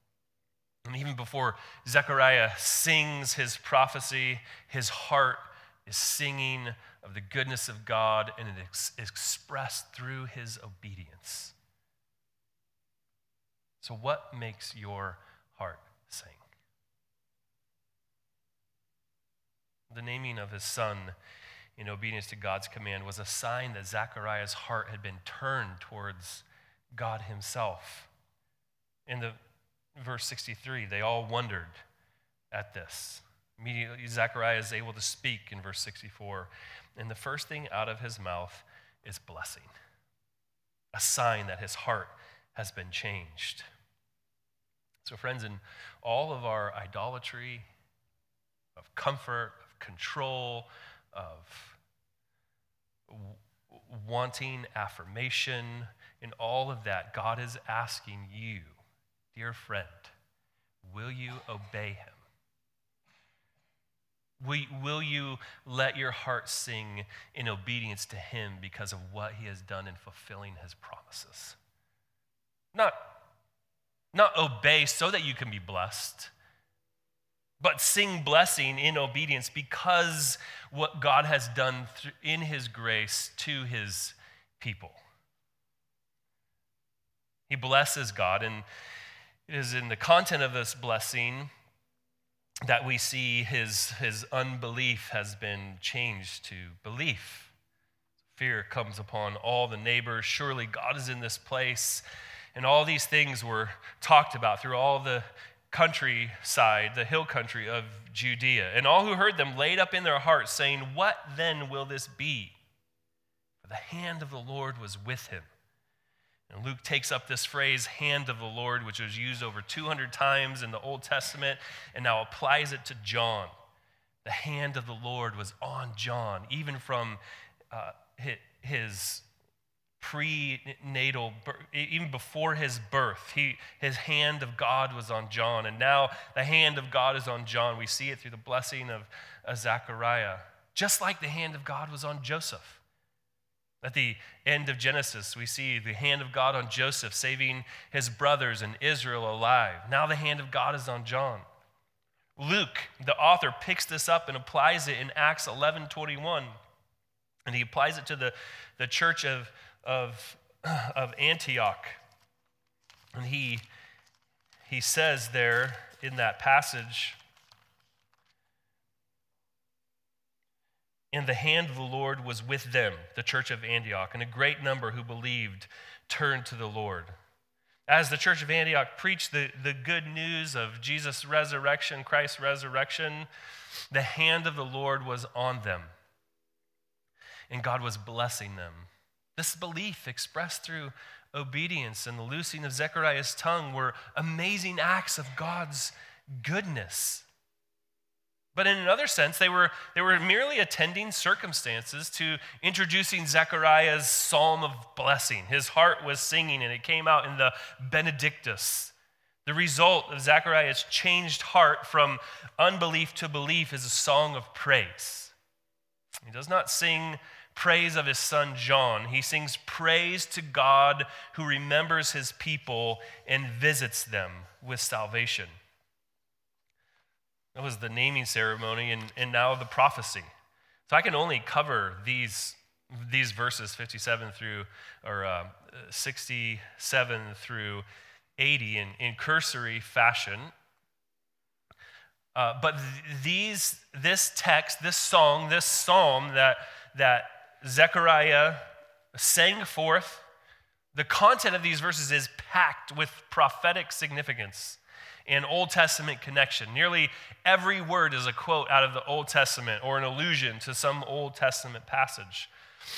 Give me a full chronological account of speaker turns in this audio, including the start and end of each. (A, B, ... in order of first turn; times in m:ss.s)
0:00.8-0:11.5 A
0:13.8-0:16.4 A
0:19.9-0:21.1 A
0:21.8-0:28.1 A
0:29.1-0:29.4 A
0:29.9-0:31.8 A
0:32.5-0:39.7 A
0:40.9-0:43.7 A
0:45.0-0:47.6 A
0:48.8-0:51.8 A
0:53.1-0:58.8 A
0:59.3-1:00.1 A
1:00.8-1:02.2 A
1:04.4-1:11.6 A
1:14.1-1:16.3 A
1:17.6-1:25.0 A
1:27.5-1:28.6 A
1:29.5-1:31.5 A
1:32.6-1:37.5 A
1:38.3-1:52.5 A
1:53.6-1:55.5 A
1:56.5-2:03.5 A
2:04.2-2:09.2 A
2:10.0-2:22.8 A
2:23.8-2:31.4 A
2:32.4-2:36.5 A
2:37.4-2:42.0 A
2:43.1-2:43.6 A
2:44.7-2:47.2 A
2:51.1-2:57.1 A
2:57.9-3:03.3 A
3:03.9-3:05.9 A
3:07.5-3:17.2 A
3:18.5-3:28.9 A
3:29.4-3:35.3 A
3:36.1-3:45.5 A
3:47.5-3:50.3 A
3:50.9-3:57.8 A
3:58.4-4:00.5 A
4:02.3-4:10.2 A
4:10.9-4:22.5 A